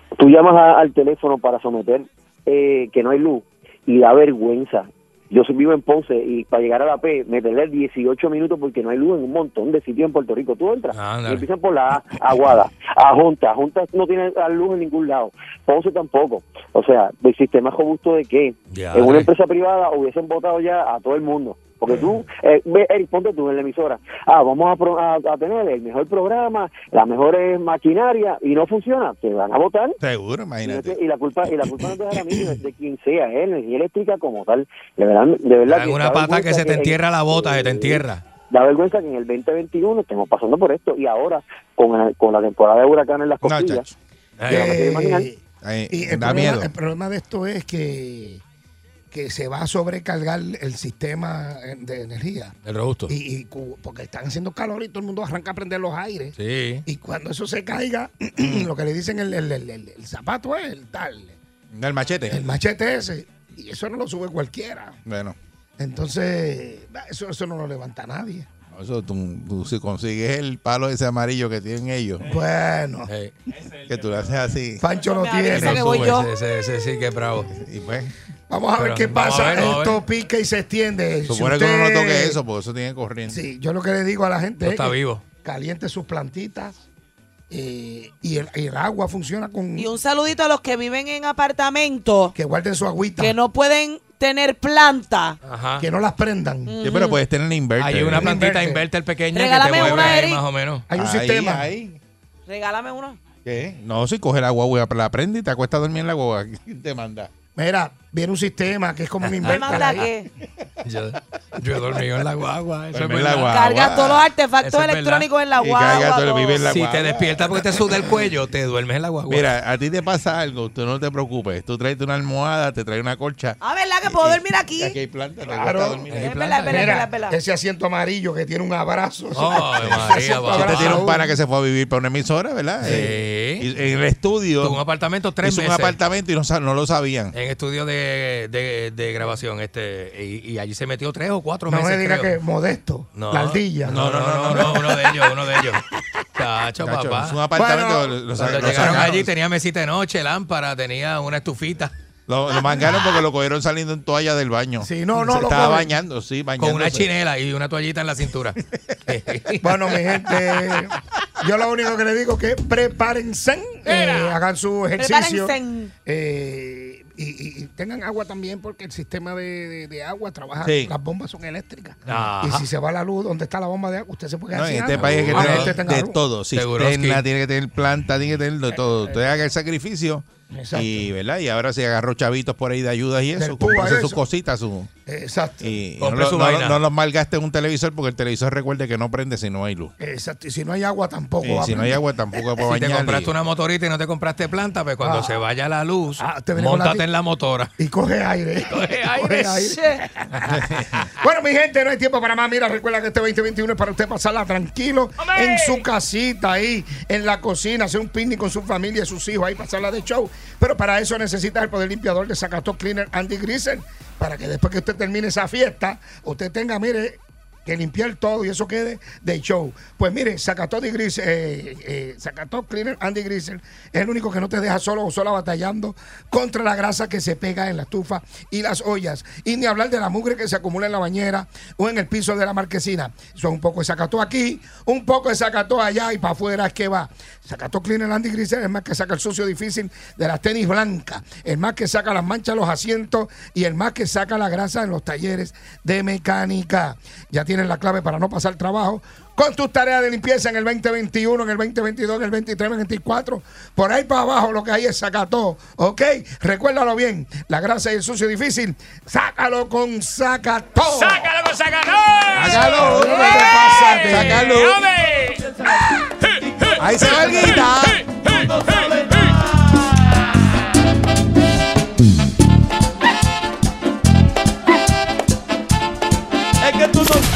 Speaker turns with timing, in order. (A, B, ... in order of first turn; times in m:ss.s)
0:00.2-0:30.0 A
0:10.9-0:11.4 B
0:18.7-0:19.3 B
0:30.0-0:31.0 C
0:30.6-0:43.9 A
0:35.7-0:38.2 B
0:43.4-0:43.9 C
0:44.4-0:44.8 B
0:44.5-0:45.3 A
0:44.5-0:45.4 D
0:45.6-0:46.7 C
0:45.9-0:48.4 D
0:49.1-0:52.5 D
0:52.6-0:53.1 B
0:53.1-1:01.4 D
0:56.4-0:56.8 B
0:58.4-0:58.7 C
1:01.7-1:02.4 C
1:02.3-1:05.0 D
1:05.0-1:05.4 C
1:05.8-1:08.5 D
1:08.7-1:12.3 C
1:12.2-1:13.1 D
1:13.1-1:13.3 B
1:13.8-1:14.8 C
1:14.8-1:16.2 D
1:15.0-1:16.3 E
1:15.5-1:17.5 B
1:15.6-1:16.1 C
1:17.5-1:18.1 C
1:18.5-1:22.4 D
1:18.8-1:20.0 B
1:21.3-1:23.4 C
1:23.3-1:26.8 D
1:24.6-1:25.2 B
1:27.5-1:29.9 D
1:29.8-1:32.3 E
1:32.3-1:33.4 D
1:33.2-1:35.4 E
1:35.4-1:35.8 B
1:35.8-1:36.8 D
1:36.7-1:37.2 E
1:36.8-1:38.4 C
1:37.8-1:40.8 B
1:38.1-1:38.8 D
1:39.3-1:40.4 E
1:39.8-1:40.2 D
1:40.9-1:41.7 D
1:40.9-1:42.0 C
1:42.5-1:43.2 E
1:43.4-1:47.3 C
1:47.6-1:50.1 D
1:49.4-1:50.0 B
1:49.4-1:50.3 E
1:50.8-1:53.5 B
1:52.9-1:54.3 C
1:53.4-1:56.6 E
1:54.6-1:55.3 B
1:55.6-1:58.3 C
1:56.6-1:59.5 B
1:59.3-2:06.5 C
2:03.6-2:05.0 E
2:05.5-2:06.1 D
2:06.1-2:07.0 B
2:06.2-2:07.4 E
2:06.6-2:11.3 D
2:09.3-2:11.0 B
2:10.5-2:14.8 C
2:12.8-2:13.7 B
2:14.6-2:16.0 B
2:15.4-2:17.3 C
2:17.3-2:22.4 B
2:21.7-2:24.0 D
2:23.2-2:25.8 B
2:23.9-2:25.0 C
2:24.5-2:25.0 D
2:26.3-2:27.4 B
2:26.8-2:29.3 C
2:27.5-2:29.2 D
2:28.4-2:31.9 B
2:32.3-2:37.1 C
2:34.8-2:35.9 D
2:36.6-2:40.3 B
2:39.6-2:56.2 D
2:43.8-2:44.4 E
2:45.0-2:45.9 E
2:50.6-2:50.9 C
2:52.0-2:52.7 B
2:54.5-3:04.9 C
2:54.9-2:55.8 B
2:56.5-2:57.2 B
3:00.5-3:01.1 D
3:03.4-3:04.2 D
3:05.0-3:05.7 D
3:05.6-3:09.9 C
3:06.0-3:06.8 B
3:10.0-3:12.0 D
3:11.4-3:13.3 C
3:12.6-3:17.7 B
3:15.0-3:15.4 D
3:16.2-3:17.0 D
3:17.8-3:20.5 D
3:18.7-3:19.8 B
3:19.6-3:20.0 E
3:20.4-3:21.0 C
3:21.2-4:21.5 D
3:25.2-3:25.8 B
4:21.8-4:22.5 B
4:22.3-4:24.9 C
4:22.5-4:24.5 D
4:24.2-4:25.4 B
4:26.8-4:28.6 C